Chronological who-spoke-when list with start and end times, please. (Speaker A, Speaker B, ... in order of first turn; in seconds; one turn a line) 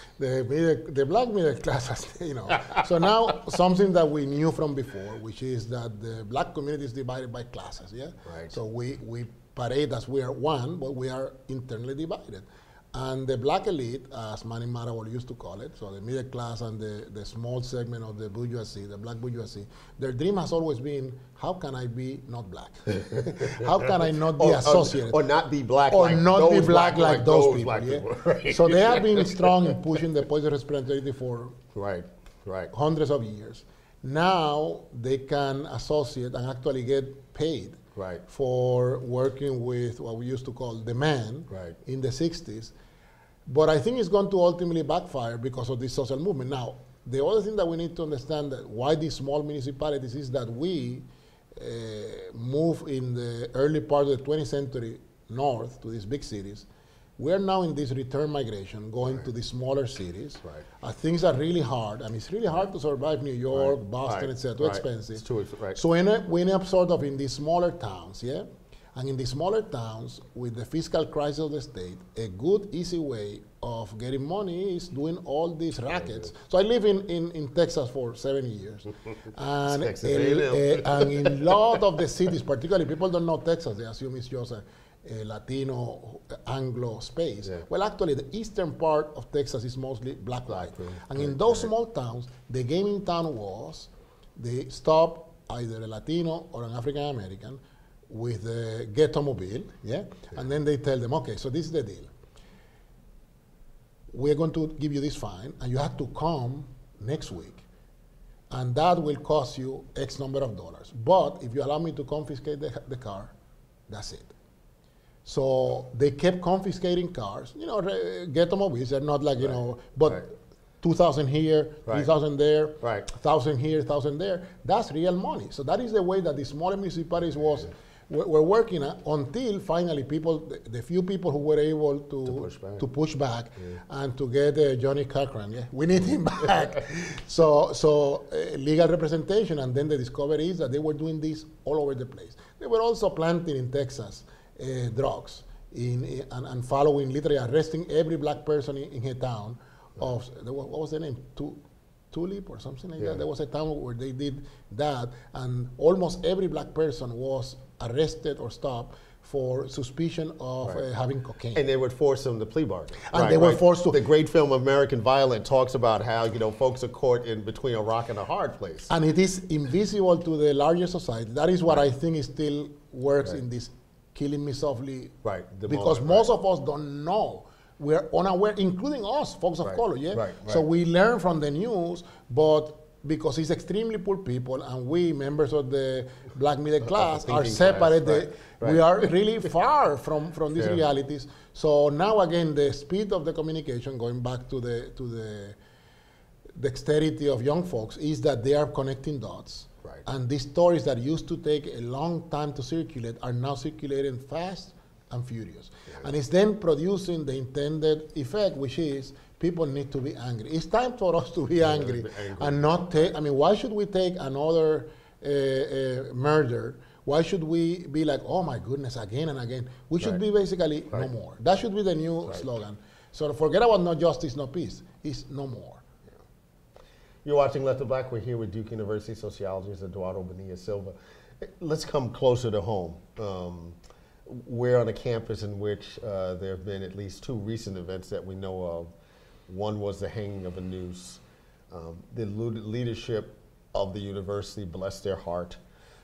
Speaker A: 0.2-25.2
Speaker B: 8.2-8.5
Speaker B: 24.3-29.8
Speaker A: 25.9-31.6
Speaker B: 31.7-32.7
Speaker A: 32.7-42.7
Speaker B: 38.0-38.2
Speaker B: 41.5-41.8
Speaker A: 43.5-51.0
Speaker A: 51.5-56.7
Speaker A: 57.2-102.1
Speaker B: 63.5-65.8
Speaker B: 79.6-81.5
Speaker B: 90.5-91.7
Speaker A: 104.1-107.6
Speaker A: 108.5-113.3
Speaker A: 113.9-114.3
Speaker A: 115.2-151.6
Speaker B: 119.4-120.2
Speaker B: 122.8-123.1
Speaker B: 132.2-132.8
Speaker A: 152.1-161.6
Speaker B: 161.5-168.9
Speaker A: 163.1-164.0
Speaker A: 168.9-195.6
Speaker B: 175.2-176.3
Speaker B: 179.6-180.6
Speaker B: 186.8-188.8
Speaker A: 196.6-225.8
Speaker B: 211.6-213.1
Speaker B: 227.2-238.9
Speaker B: 239.5-245.6